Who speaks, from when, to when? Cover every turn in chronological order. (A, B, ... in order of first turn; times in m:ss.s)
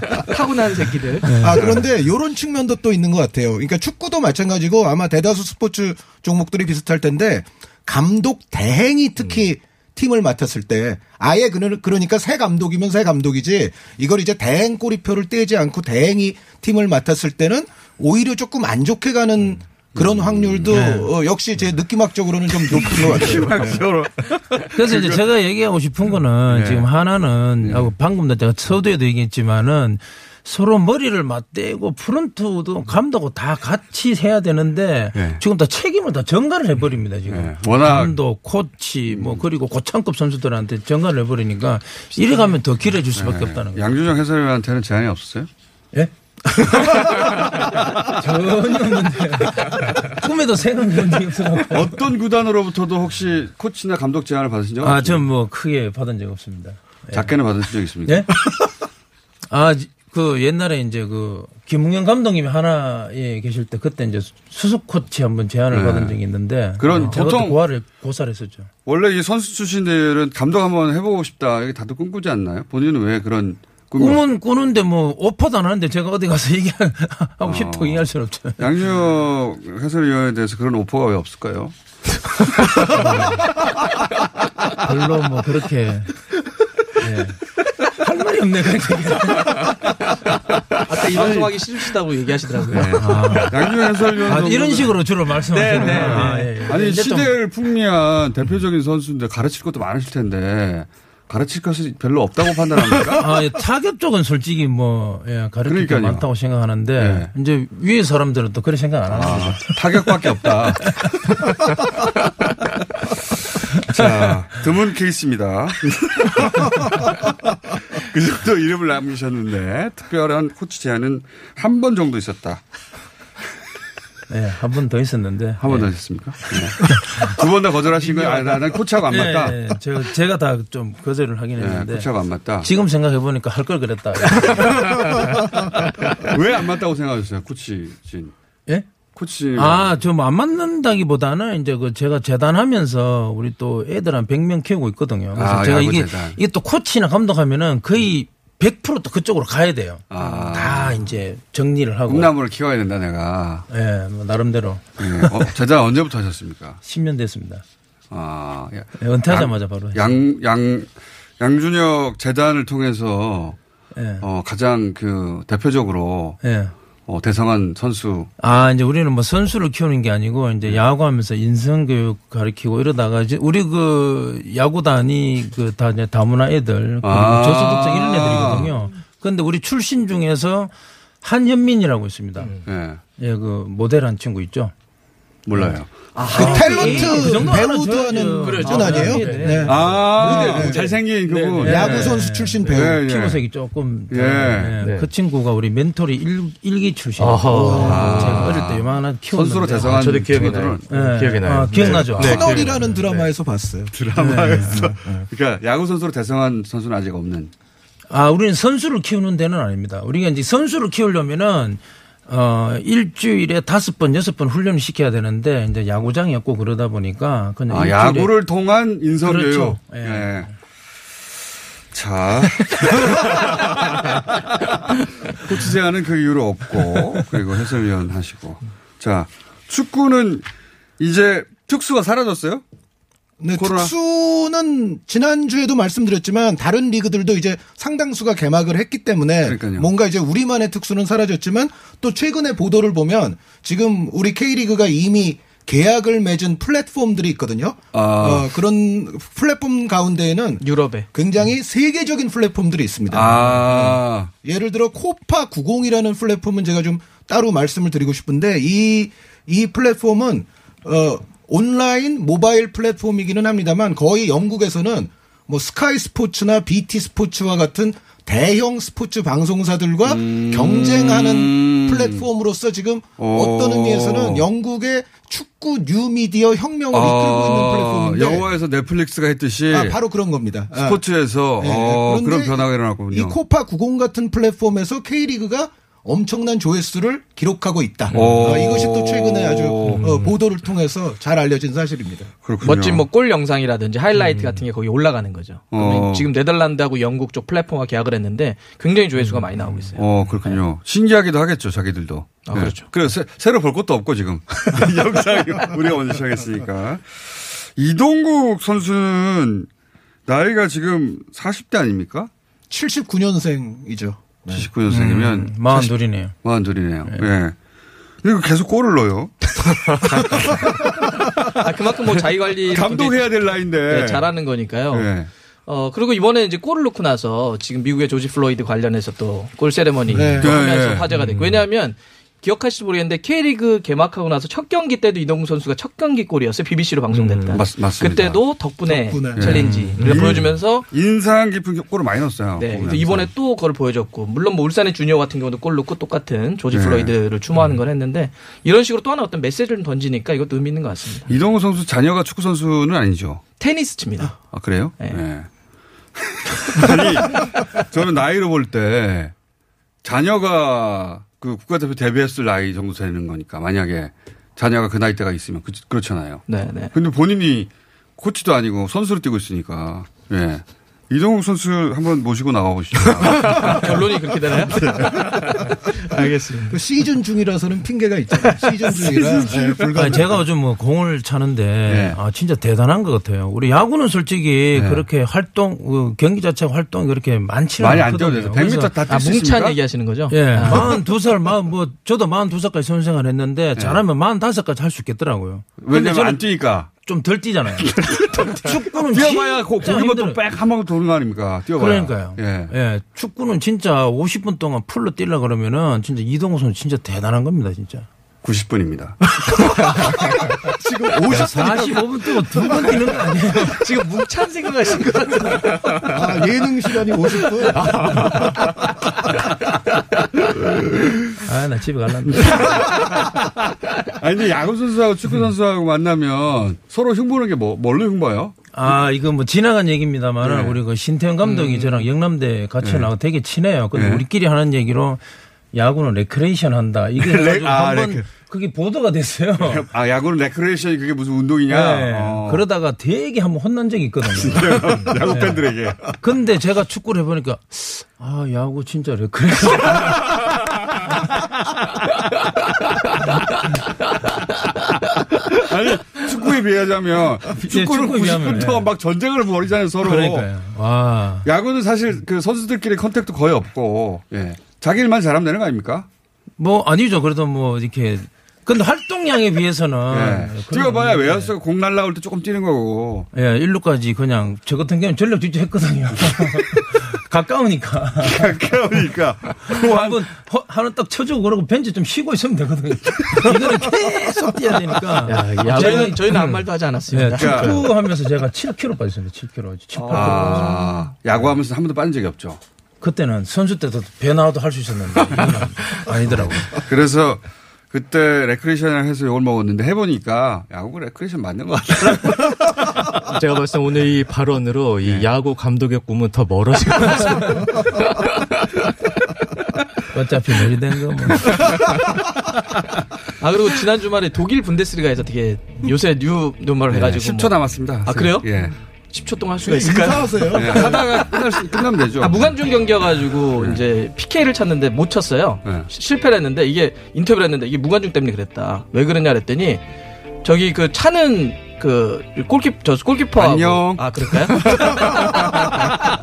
0:00.3-0:01.4 A
0:01.2-0:01.8 B
0:01.4-0:02.1 C
0:01.4-0:23.8 D
0:19.9-0:20.9 C
0:20.7-0:21.1 B
0:22.5-0:25.2 C
0:24.8-0:43.8 B
0:26.5-0:26.9 C
0:27.6-0:27.9 C
0:35.1-0:35.4 C
0:37.3-0:38.2 C
0:39.1-0:39.4 C
0:42.2-0:42.5 A
0:43.1-0:45.5 C
0:45.9-0:52.0 B
0:51.7-0:55.3 C
0:54.8-0:57.4 B
0:57.1-0:58.3 C
0:58.1-0:58.3 B
0:59.5-1:08.7 B
1:05.7-1:06.2 C
1:06.8-1:07.6 C
1:08.9-1:14.2 C
1:14.0-1:18.8 B
1:17.4-1:21.7 C
1:22.9-1:23.5 B
1:24.8-1:26.1 B
1:27.0-1:27.4 B
1:28.0-1:29.8 B
1:30.9-1:33.3 A
1:31.2-1:31.5 C
1:32.7-1:35.0 C
1:32.8-1:37.4 B
1:35.5-1:36.6 A
1:35.7-1:43.3 C
1:43.0-1:49.8 B
1:45.6-1:46.3 C
1:47.0-1:47.3 C
1:49.1-1:51.0 C
1:53.9-1:57.1 C
1:54.0-1:54.4 B
1:57.9-2:02.6 C
2:04.3-2:07.4 B
2:05.6-2:09.6 C
2:08.0-2:12.1 B
2:11.6-2:12.7 C
2:12.6-2:15.1 B
2:16.3-2:18.3 C
2:19.2-2:20.0 C
2:19.6-2:32.3 B
2:25.3-2:26.4 C
2:30.1-2:31.2 C
2:32.1-2:33.7 C
2:33.7-2:35.6 B
2:35.0-2:36.8 C
2:36.8-2:37.6 B
2:38.1-2:43.6 C
2:39.0-2:40.2 B
2:44.0-2:44.3 B
2:44.2-2:46.4 C
2:46.4-2:46.8 B
2:47.1-2:48.3 C
2:48.4-3:02.6 B
2:57.0-2:58.9 C
3:02.6-3:03.0 C
3:03.2-3:04.7 B
3:05.5-3:06.6 C
3:05.5-3:23.0 B
3:06.2-3:07.1 A
3:06.4-3:10.8 D
3:08.3-3:11.4 A
3:09.6-3:13.4 C
3:11.7-3:12.7 D
3:14.1-3:14.8 C
3:14.8-3:15.1 E
3:17.2-3:18.5 E
3:17.8-3:20.9 C
3:19.8-3:23.0 E
3:21.7-3:22.5 C
3:22.2-3:24.0 D
3:23.9-3:27.5 C
3:24.1-3:25.0 B
3:28.1-3:38.3 B
3:37.7-3:40.5 C
3:39.2-3:40.5 B
3:41.9-3:43.4 C
3:45.3-3:50.5 C
3:51.0-3:52.6 C
3:53.4-4:38.5 D
3:53.5-3:53.9 C
3:59.4-3:59.9 C
4:07.9-4:08.6 C
4:10.6-4:11.1 A
4:13.1-4:14.3 C
4:30.0-4:32.3 C
4:33.2-4:34.5 C
4:36.9-4:40.0 C
4:39.7-4:41.0 D
4:40.7-4:43.4 C
4:41.6-4:52.3 D
4:48.1-4:48.5 E
4:48.1-4:50.1 C
4:49.8-4:50.3 E
4:52.4-4:53.1 C
4:52.6-5:00.6 A
4:54.2-4:54.6 E
4:55.7-4:56.3 C
4:59.6-5:00.0 B
5:00.0-5:09.7 C
5:02.4-5:02.9 A
5:10.3-5:12.3 C
5:12.7-5:14.7 D
5:14.5-5:17.6 C
5:14.9-5:16.4 B
5:18.2-5:19.5 C
5:20.0-5:20.8 C
5:21.5-5:25.1 A
5:22.7-5:25.3 C
5:25.7-5:40.9 A
5:30.1-5:30.6 D
5:30.4-5:31.3 C
5:37.1-5:37.6 E
5:37.5-5:38.5 C
5:38.8-5:39.4 D
5:39.3-5:43.3 C
5:39.4-5:40.5 B
5:42.6-5:51.3 A
5:46.7-5:47.1 C
5:51.3-5:53.4 C
5:53.6-5:55.2 A
5:54.4-5:55.5 C
5:56.2-5:59.3 C
6:00.0-6:15.5 C
6:06.5-6:06.9 A
6:13.2-6:15.0 A
6:16.1-6:16.8 A
6:16.7-6:20.2 D
6:18.8-6:20.4 C
6:19.9-6:29.0 B
6:21.9-6:22.2 C
6:24.7-6:25.1 C
6:27.8-6:29.8 C
6:29.1-6:31.0 A
6:30.3-6:40.4 B
6:30.6-6:30.9 C
6:33.8-6:34.0 C
6:35.8-6:36.9 C
6:37.8-6:42.8 C
6:41.8-6:48.1 B
6:48.4-6:49.2 C
6:50.8-6:52.0 D
6:51.3-6:53.8 B
6:53.7-6:56.1 A
6:56.1-6:57.9 D
7:01.5-7:02.8 B
7:02.3-7:03.0 C
7:04.2-7:08.6 C
7:08.7-7:15.2 B
7:10.4-7:10.8 C
7:11.4-7:12.1 A
7:12.8-7:13.1 C
7:13.9-7:14.3 C
7:15.7-7:19.9 B
7:17.2-7:18.3 C
7:19.6-7:22.7 C
7:21.7-7:30.4 B
7:24.3-7:26.1 C
7:35.5-7:40.5 C
7:37.6-7:38.9 B
7:40.0-7:41.5 B
7:41.4-7:46.1 C
7:46.6-7:51.5 B
7:50.1-7:53.3 C
7:53.3-7:58.5 B
7:58.2-8:00.3 C
7:59.6-8:11.5 B
8:05.2-8:06.2 E
8:05.6-8:07.8 A
8:07.3-8:07.8 C
8:10.0-8:10.6 A
8:10.1-8:12.6 C
8:13.0-8:16.8 B
8:16.2-8:22.6 C
8:23.3-8:27.7 E
8:30.1-8:31.7 B
8:33.4-8:41.5 A
8:36.9-8:38.8 C
8:39.6-8:41.0 D
8:40.5-8:43.8 C
8:42.2-8:49.9 A
8:45.6-8:45.9 C
8:50.4-8:55.7 A
8:53.4-8:55.3 C